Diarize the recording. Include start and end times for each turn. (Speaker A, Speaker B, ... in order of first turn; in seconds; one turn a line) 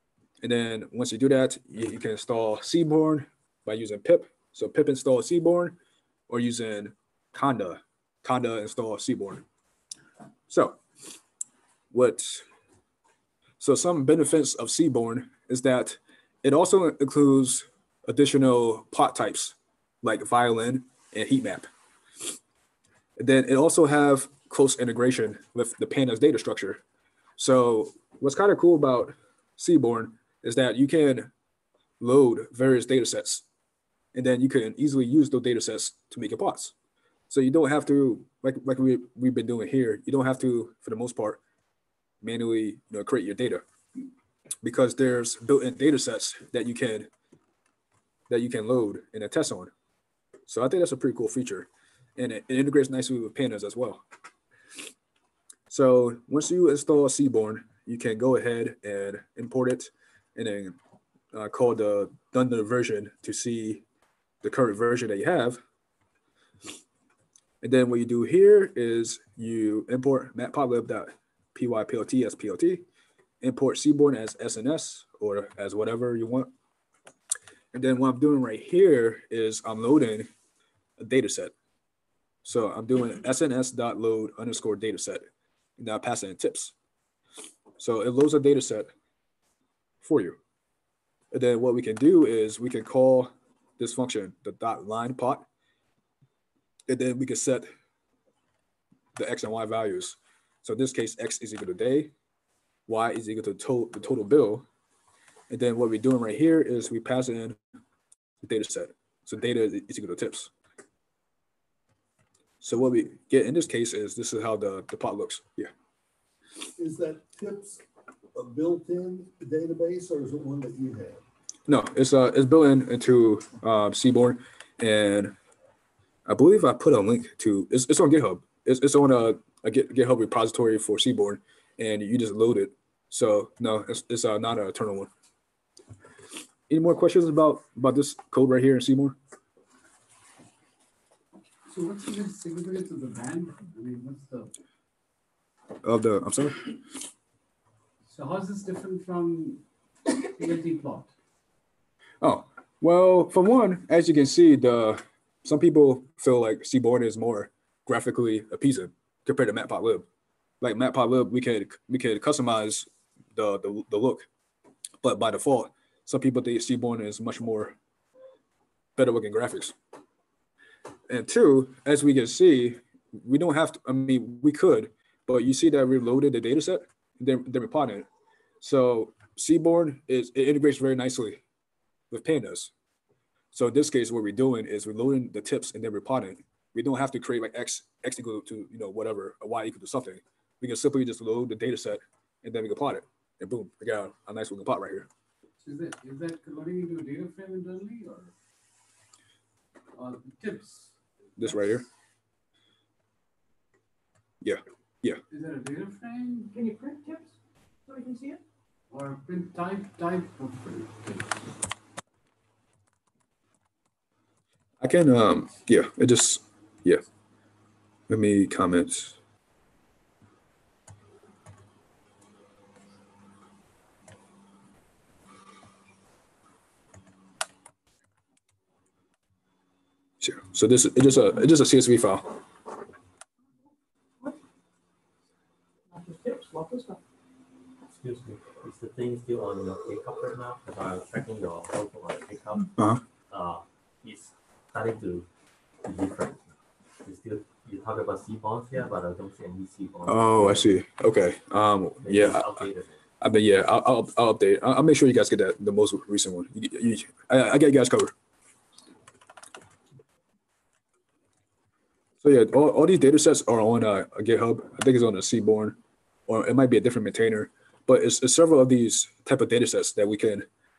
Speaker A: 0.4-5.8
Speaker A: 6.3-9.4
Speaker A: 10.5-10.8
Speaker A: 11.9-12.5
Speaker A: 13.6-21.7
Speaker A: 23.2-26.8
Speaker A: 27.4-31.3
Speaker A: 32.0-33.5
Speaker A: 34.1-36.7
Speaker A: 37.3-41.4
Speaker A: 42.2-43.6
Speaker A: 44.6-47.1
Speaker A: 48.3-49.7
Speaker A: 50.5-54.0
Speaker A: 55.7-60.8
Speaker A: 61.3-63.8
Speaker A: 64.4-65.6
Speaker A: 67.6-72.8
Speaker A: 73.4-76.5
Speaker A: 77.7-80.3
Speaker A: 81.0-81.5
Speaker A: 82.4-85.3
Speaker A: 85.8-86.7
Speaker A: 87.8-88.9
Speaker A: 90.0-90.4
Speaker A: 91.3-95.5
Speaker A: 96.9-97.7
Speaker A: 99.2-102.1
Speaker A: 102.9-104.7
Speaker A: 105.5-107.6
Speaker A: 108.4-110.5
Speaker A: 112.6-115.7
Speaker B: 116.8-117.8
Speaker B: 118.3-121.2
Speaker A: 121.7-125.4
Speaker A: 126.3-135.1
Speaker A: 136.7-139.2
Speaker C: 141.7-144.5
Speaker A: 145.8-146.7
Speaker C: 148.1-151.1
Speaker A: 152.2-160.1
Speaker A: 160.6-164.3
Speaker A: 165.0-167.8
Speaker A: 169.0-169.8
Speaker A: 171.1-178.1
Speaker A: 178.6-181.4
Speaker A: 182.1-182.7
Speaker A: 183.5-195.1
Speaker C: 195.6-198.3
Speaker C: 199.9-201.8
Speaker A: 201.4-201.9
Speaker A: 204.4-205.2
Speaker C: 205.3-206.5
Speaker D: 206.5-207.3
Speaker D: 207.9-208.4
Speaker C: 208.9-211.5
Speaker A: 214.8-217.0
Speaker A: 218.1-219.2
Speaker A: 230.2-232.3
Speaker D: 235.9-237.0
Speaker E: 237.9-242.8
Speaker A: 242.8-243.0
Speaker E: 243.3-245.3
Speaker E: 245.8-250.8
Speaker A: 250.1-252.6
Speaker E: 252.0-253.0
Speaker A: 253.2-258.1
Speaker A: 262.2-270.5